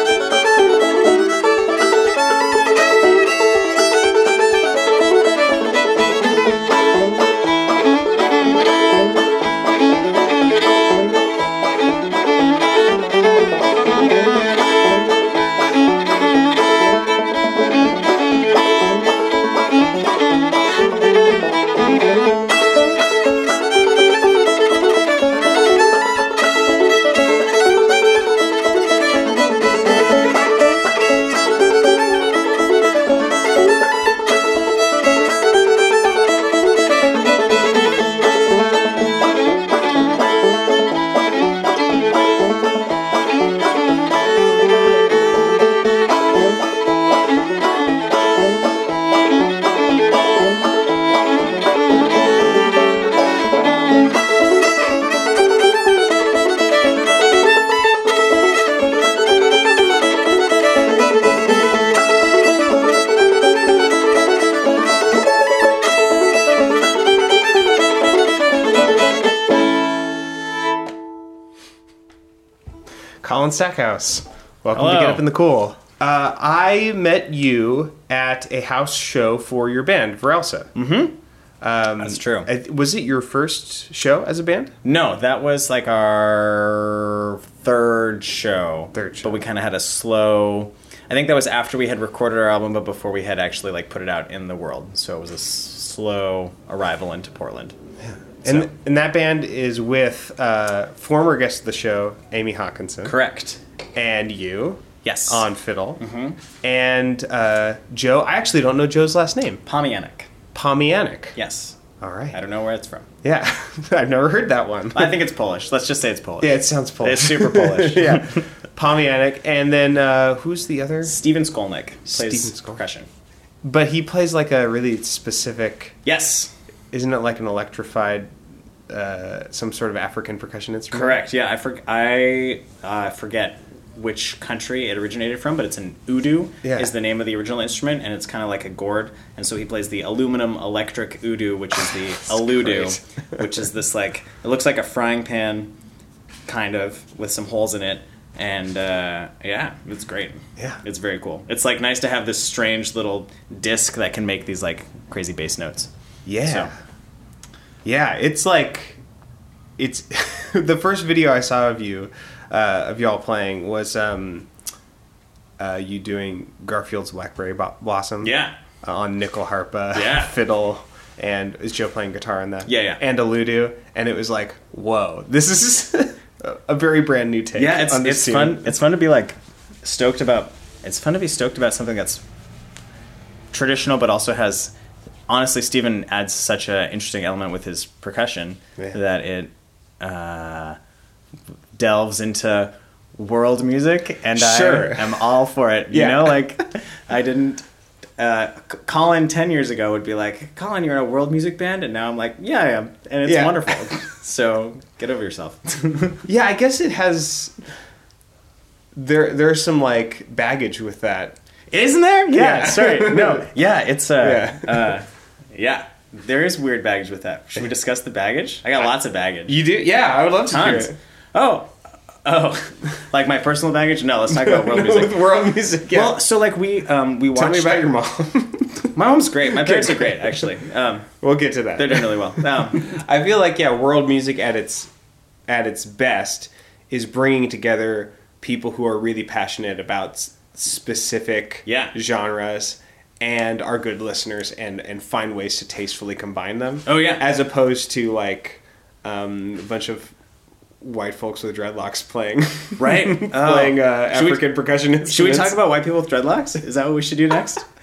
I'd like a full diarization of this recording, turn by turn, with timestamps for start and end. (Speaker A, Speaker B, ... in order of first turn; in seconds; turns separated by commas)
Speaker A: 73.2-80.7, Speaker B: 74.7-75.2, Speaker B: 80.7-81.2, Speaker A: 81.6-84.7, Speaker B: 82.0-82.5, Speaker B: 84.8-97.7, Speaker A: 88.9-89.4, Speaker A: 98.0-103.1, Speaker B: 98.4-98.7, Speaker B: 103.0-103.6, Speaker A: 103.9-106.0, Speaker B: 105.0-105.5, Speaker B: 106.0-106.4, Speaker A: 106.6-109.6, Speaker B: 109.6-110.3, Speaker A: 110.5-111.4, Speaker B: 111.3-111.8, Speaker A: 112.0-112.4, Speaker B: 112.3-113.1, Speaker A: 113.2-115.2, Speaker B: 114.9-118.5, Speaker A: 116.4-121.2, Speaker B: 121.0-123.1, Speaker A: 122.1-122.8, Speaker A: 123.6-126.0, Speaker B: 126.0-126.5, Speaker A: 126.9-128.3, Speaker A: 128.9-131.2, Speaker B: 130.9-145.7, Speaker A: 136.6-136.9, Speaker A: 142.2-143.4, Speaker B: 146.5-155.9, Speaker A: 156.2-156.7, Speaker B: 156.4-156.7, Speaker A: 157.8-159.0, Speaker A: 159.8-164.5, Speaker A: 165.6-178.7, Speaker B: 168.2-168.5, Speaker B: 169.9-170.3, Speaker B: 172.7-173.0, Speaker B: 177.5-182.2, Speaker B: 183.5-184.7, Speaker B: 185.3-190.8, Speaker B: 191.8-197.6, Speaker A: 194.3-195.3, Speaker A: 195.9-196.4, Speaker B: 198.2-206.2, Speaker A: 203.2-203.8, Speaker A: 206.3-207.5, Speaker A: 208.9-211.4, Speaker B: 211.7-219.6, Speaker A: 212.3-213.5, Speaker A: 214.2-215.0, Speaker A: 219.5-220.9, Speaker B: 220.5-225.3, Speaker A: 224.3-226.2, Speaker B: 225.9-227.9, Speaker A: 227.3-228.9, Speaker B: 228.9-231.1, Speaker A: 229.4-230.5, Speaker A: 231.2-234.9, Speaker B: 231.8-232.9, Speaker A: 235.5-250.1, Speaker B: 241.7-241.9, Speaker B: 246.8-247.2, Speaker A: 250.8-255.6, Speaker B: 252.8-254.5, Speaker B: 255.0-257.6